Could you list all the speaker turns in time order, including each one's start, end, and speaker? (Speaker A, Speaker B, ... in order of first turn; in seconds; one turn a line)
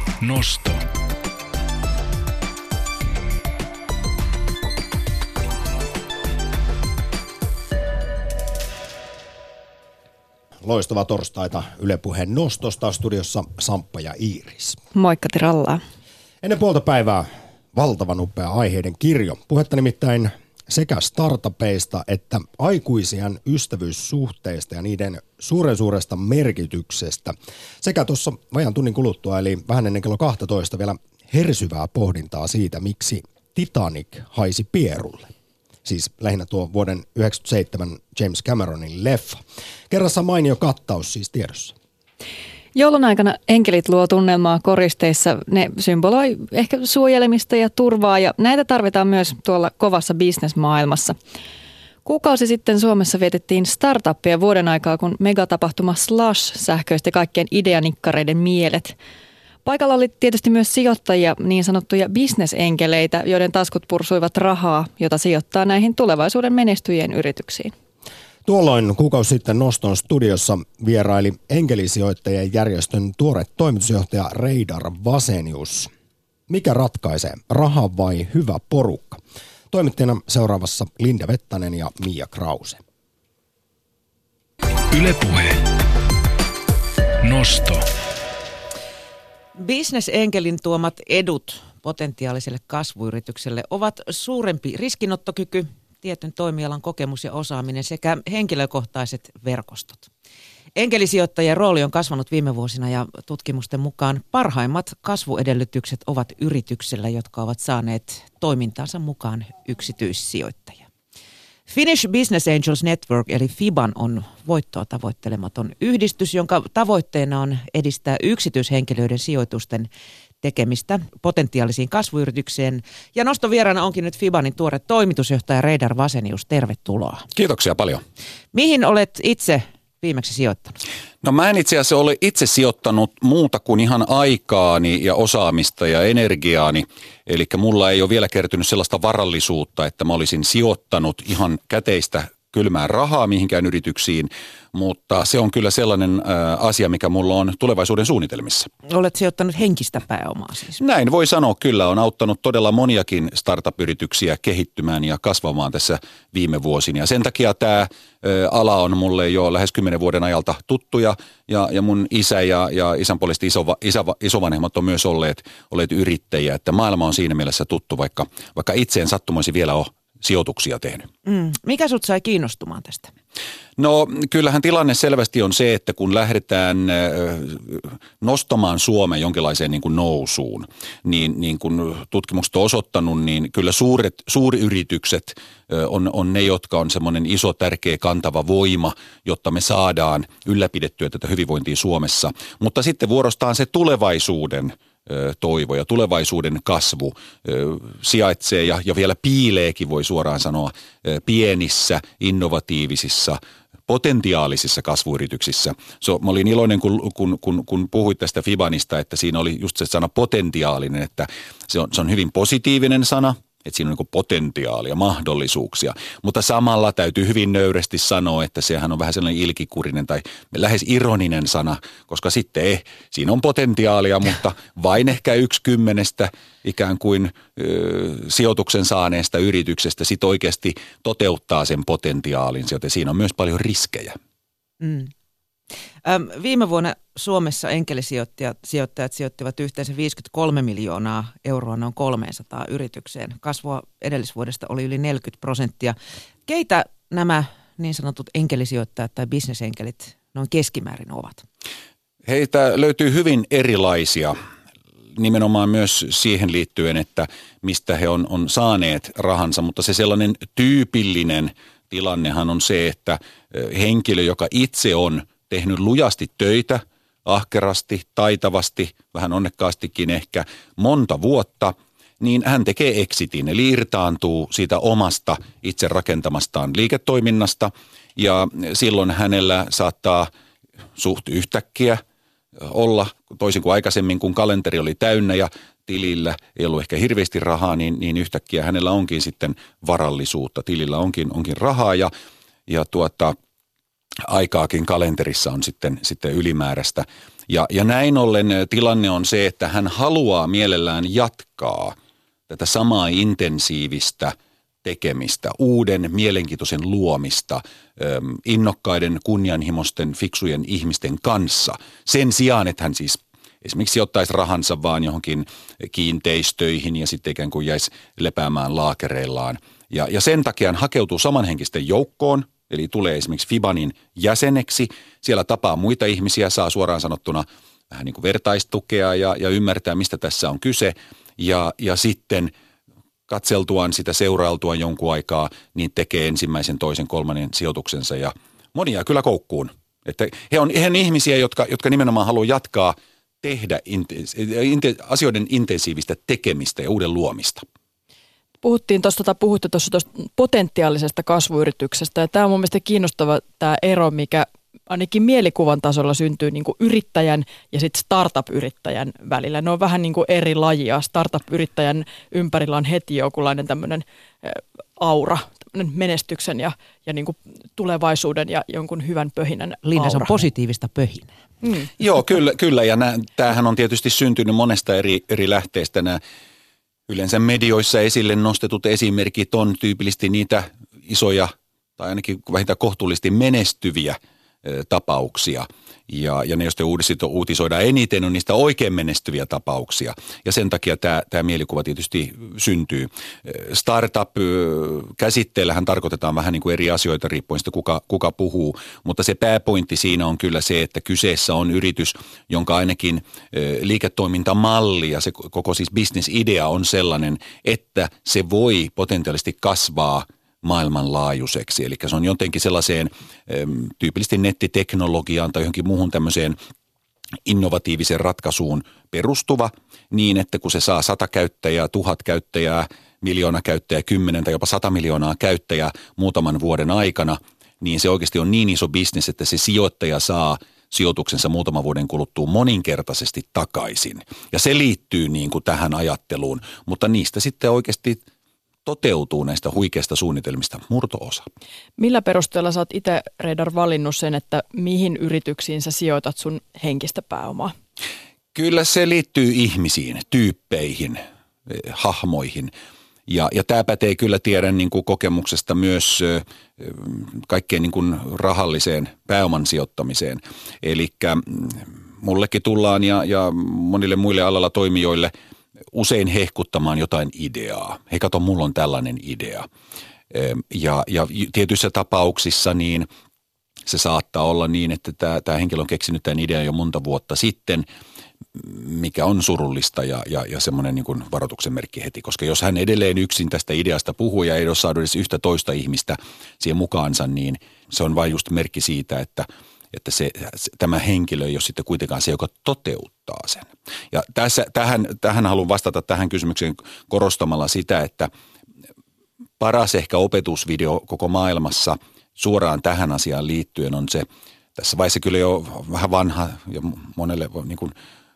Speaker A: 0.2-0.9
Speaker B: 10.6-14.8
Speaker C: 14.9-15.8
Speaker B: 16.4-35.3
Speaker B: 35.9-41.8
Speaker C: 42.7-51.2
Speaker C: 52.0-59.0
Speaker C: 59.6-67.7
Speaker B: 68.5-75.9
Speaker B: 76.5-82.8
Speaker A: 84.9-85.8
Speaker A: 87.2-87.9
Speaker D: 89.6-100.1
Speaker D: 100.8-110.9
Speaker D: 111.7-119.9
Speaker D: 120.4-127.3
Speaker E: 127.3-128.0
Speaker D: 128.5-130.8
Speaker E: 131.2-148.7
Speaker D: 148.9-150.8
Speaker E: 150.8-171.1
Speaker D: 171.2-173.1
Speaker E: 173.8-234.2
Speaker D: 234.8-235.1
Speaker D: 236.1-246.0
Speaker D: 246.5-251.5
Speaker E: 252.2-254.4
Speaker E: 255.2-280.3
Speaker E: 281.0-282.0
Speaker E: 282.6-292.1
Speaker E: 292.7-293.4
Speaker E: 294.3-302.0
Speaker E: 302.5-332.5
Speaker E: 333.3-347.7
Speaker F: 348.6-370.4
Speaker D: 369.9-371.4
Speaker F: 371.6-371.9
Speaker E: 372.0-376.2
Speaker E: 377.1-416.6
Speaker E: 417.5-438.2
Speaker E: 438.9-441.5
Speaker F: 442.0-447.7
Speaker E: 448.5-452.7
Speaker E: 453.3-465.3
Speaker E: 465.9-469.7
Speaker E: 470.3-473.1
Speaker E: 473.9-477.9
Speaker E: 478.6-498.3
Speaker E: 499.6-507.9